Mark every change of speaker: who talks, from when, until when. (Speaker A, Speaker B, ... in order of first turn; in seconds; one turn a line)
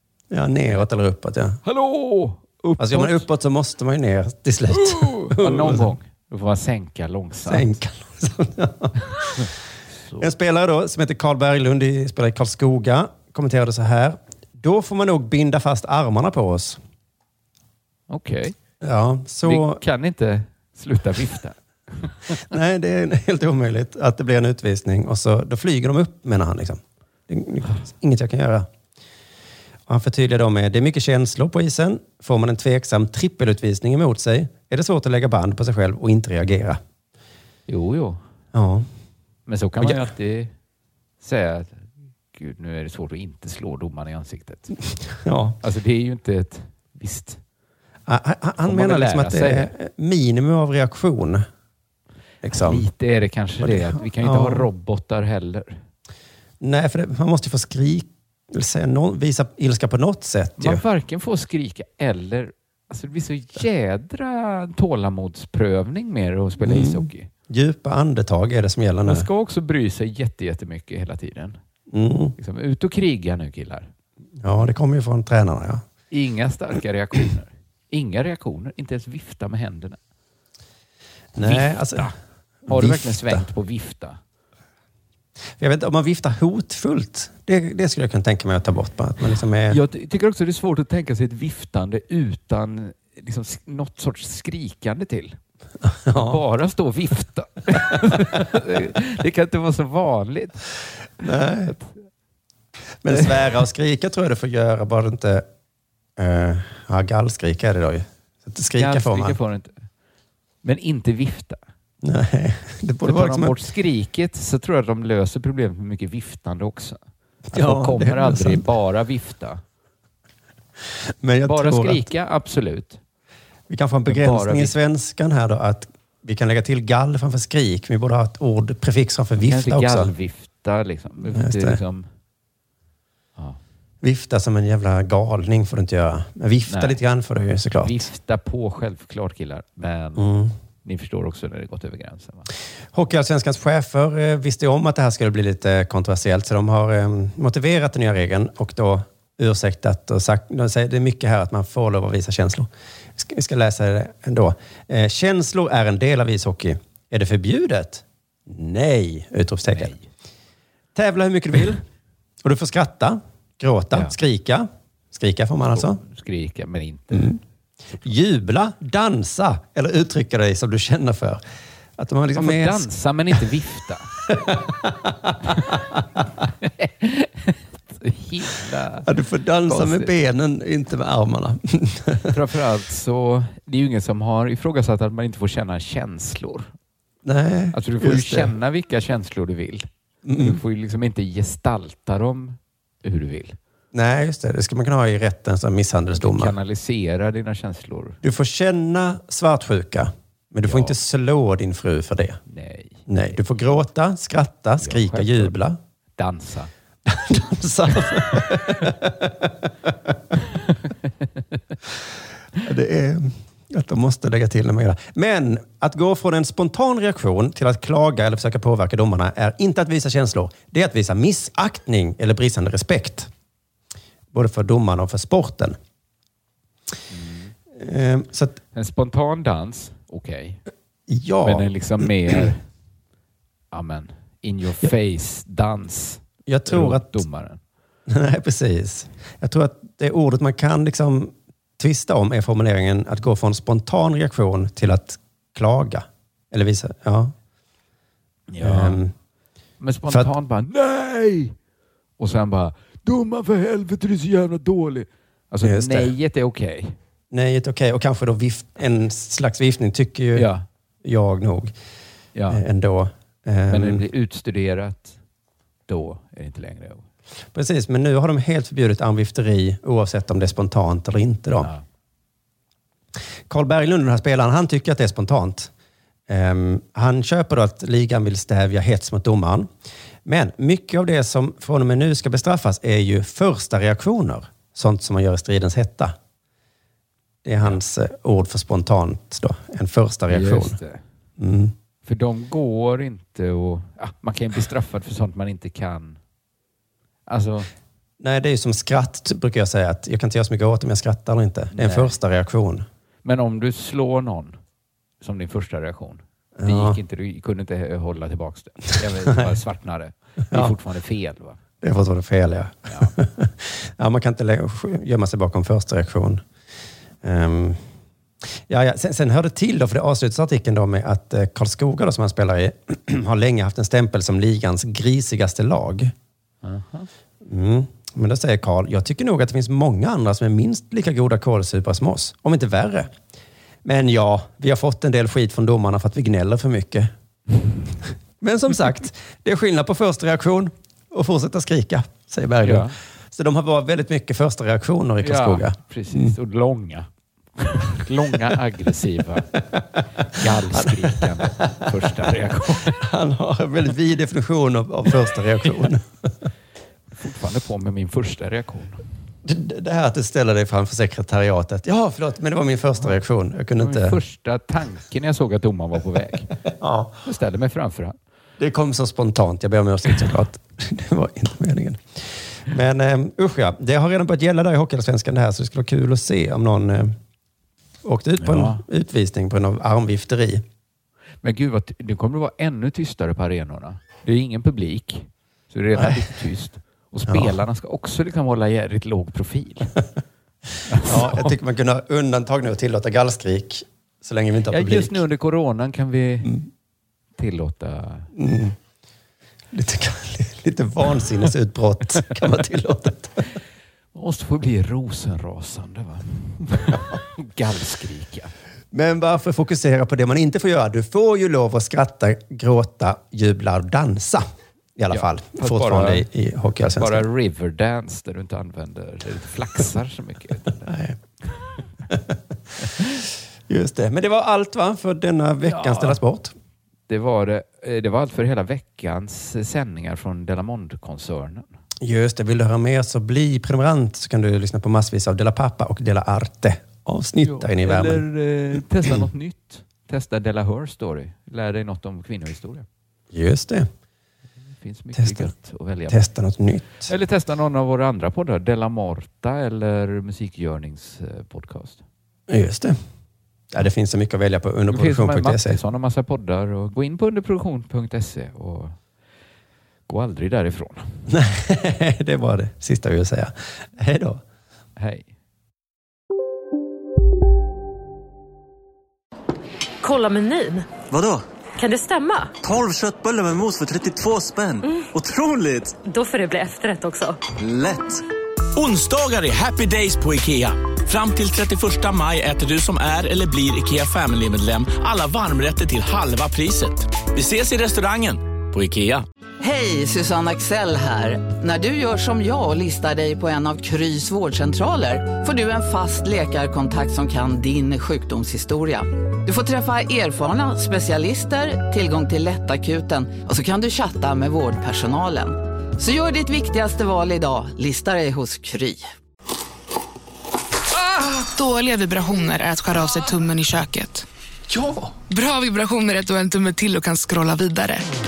Speaker A: 0.3-1.6
Speaker B: 1.6-3.2
Speaker A: 2.8-5.9
Speaker B: 4.7-7.7
Speaker A: 7.5-9.4
Speaker B: 9.1-10.3
Speaker A: 10.2-16.8
Speaker B: 18.1-18.6
Speaker A: 18.8-19.8
Speaker B: 19.4-22.4
Speaker A: 22.5-28.7
Speaker A: 29.9-36.8
Speaker B: 37.7-38.2
Speaker A: 38.5-38.9
Speaker B: 39.5-40.5
Speaker A: 39.8-40.1
Speaker B: 41.2-44.8
Speaker A: 45.1-45.5
Speaker B: 45.6-47.4
Speaker A: 48.1-51.5
Speaker B: 48.6-49.7
Speaker A: 52.4-52.9
Speaker B: 52.5-55.8
Speaker A: 53.6-54.7
Speaker A: 56.6-60.8
Speaker B: 60.6-67.3
Speaker A: 66.6-69.2
Speaker B: 69.0-71.6
Speaker A: 71.9-72.3
Speaker B: 72.4-73.9
Speaker A: 74.4-75.8
Speaker B: 76.1-80.0
Speaker A: 81.3-82.1
Speaker B: 81.4-82.2
Speaker A: 82.7-83.4
Speaker B: 82.7-84.2
Speaker A: 85.6-89.8
Speaker B: 89.7-95.4
Speaker A: 95.8-96.4
Speaker B: 96.1-100.7
Speaker A: 101.2-101.8
Speaker B: 101.7-101.9
Speaker A: 103.0-105.4
Speaker A: 106.2-109.4
Speaker B: 108.8-109.7
Speaker B: 110.6-111.6
Speaker A: 112.0-113.5
Speaker B: 113.0-117.0
Speaker A: 117.5-118.6
Speaker B: 117.5-119.6
Speaker A: 121.2-122.1
Speaker B: 121.4-123.0
Speaker A: 123.7-130.1
Speaker B: 124.1-124.7
Speaker B: 129.4-132.1
Speaker A: 131.3-131.8
Speaker A: 134.0-138.1
Speaker B: 136.7-137.0
Speaker B: 137.8-140.3
Speaker A: 140.2-140.5
Speaker B: 140.8-142.5
Speaker A: 142.9-159.9
Speaker B: 159.7-160.1
Speaker A: 160.9-161.8
Speaker A: 162.4-166.0
Speaker B: 165.7-167.3
Speaker A: 167.1-167.4
Speaker A: 168.0-171.4
Speaker A: 172.0-172.9
Speaker B: 172.3-174.2
Speaker A: 174.2-176.2
Speaker B: 176.6-179.1
Speaker A: 179.0-182.3
Speaker B: 179.7-180.1
Speaker B: 182.3-186.7
Speaker A: 187.2-188.5
Speaker B: 187.7-193.6
Speaker A: 190.2-190.6
Speaker A: 193.9-196.5
Speaker B: 196.1-198.2
Speaker A: 198.2-202.4
Speaker B: 200.6-200.9
Speaker B: 202.5-203.1
Speaker A: 203.1-205.8
Speaker B: 204.8-205.6
Speaker B: 206.2-206.7
Speaker A: 207.1-210.2
Speaker A: 212.6-223.3
Speaker A: 224.3-225.8
Speaker B: 227.1-227.5
Speaker A: 227.7-228.6
Speaker B: 228.7-230.6
Speaker A: 231.1-231.7
Speaker B: 231.4-232.7
Speaker B: 233.7-237.6
Speaker A: 236.5-237.2
Speaker A: 238.1-247.3
Speaker B: 248.5-249.0
Speaker A: 248.6-249.1
Speaker B: 249.8-251.6
Speaker B: 252.2-257.0
Speaker A: 255.6-256.1
Speaker A: 257.3-260.5
Speaker B: 260.3-260.6
Speaker A: 261.0-261.7
Speaker B: 262.3-262.6
Speaker A: 262.5-264.0
Speaker B: 263.7-265.2
Speaker B: 265.9-267.0
Speaker A: 267.5-271.7
Speaker A: 273.5-275.7
Speaker A: 276.3-279.7
Speaker A: 280.2-286.1
Speaker A: 287.4-290.8
Speaker B: 290.3-291.0
Speaker A: 291.4-291.7
Speaker B: 292.0-296.2
Speaker B: 297.3-297.7
Speaker A: 298.2-302.8
Speaker B: 301.7-302.1
Speaker B: 303.2-304.6
Speaker B: 305.2-311.6
Speaker A: 306.6-307.0
Speaker A: 309.2-309.5
Speaker A: 311.8-316.4
Speaker A: 317.2-317.8
Speaker A: 318.7-326.1
Speaker B: 326.6-327.1
Speaker A: 327.4-333.1
Speaker A: 333.8-337.1
Speaker A: 338.4-346.3
Speaker B: 342.6-342.9
Speaker B: 345.2-349.4
Speaker A: 349.6-352.1
Speaker B: 350.3-353.0
Speaker A: 352.9-356.4
Speaker B: 357.1-359.1
Speaker A: 359.4-364.2
Speaker B: 363.8-366.6
Speaker A: 366.7-367.1
Speaker B: 367.2-368.1
Speaker A: 368.6-377.1
Speaker A: 378.0-380.6
Speaker B: 378.4-378.8
Speaker B: 381.4-389.9
Speaker A: 385.9-386.4
Speaker A: 387.3-387.6
Speaker B: 390.9-391.5
Speaker A: 391.0-395.2
Speaker B: 394.7-396.6
Speaker B: 397.4-398.3
Speaker A: 398.3-398.8
Speaker A: 399.7-403.4
Speaker B: 404.1-408.5
Speaker A: 408.9-417.2
Speaker B: 415.1-416.3
Speaker B: 416.9-420.9
Speaker A: 420.8-421.2
Speaker A: 422.1-422.4
Speaker A: 423.7-426.5
Speaker B: 425.6-426.2
Speaker B: 427.1-431.7
Speaker A: 432.0-438.2
Speaker B: 437.4-442.9
Speaker A: 443.3-443.9
Speaker B: 444.8-446.2
Speaker A: 445.1-445.5
Speaker A: 446.1-447.1
Speaker B: 447.1-452.0
Speaker A: 452.5-453.0
Speaker A: 453.7-455.8
Speaker B: 454.9-459.0
Speaker B: 460.1-461.3
Speaker A: 461.3-464.4
Speaker B: 465.0-465.3
Speaker C: 470.0-470.9
Speaker D: 471.1-471.4
Speaker C: 471.8-472.5
Speaker D: 472.6-476.0
Speaker C: 476.0-477.4
Speaker D: 477.5-478.2
Speaker E: 478.7-489.2
Speaker F: 489.6-509.0
Speaker G: 510.9-518.0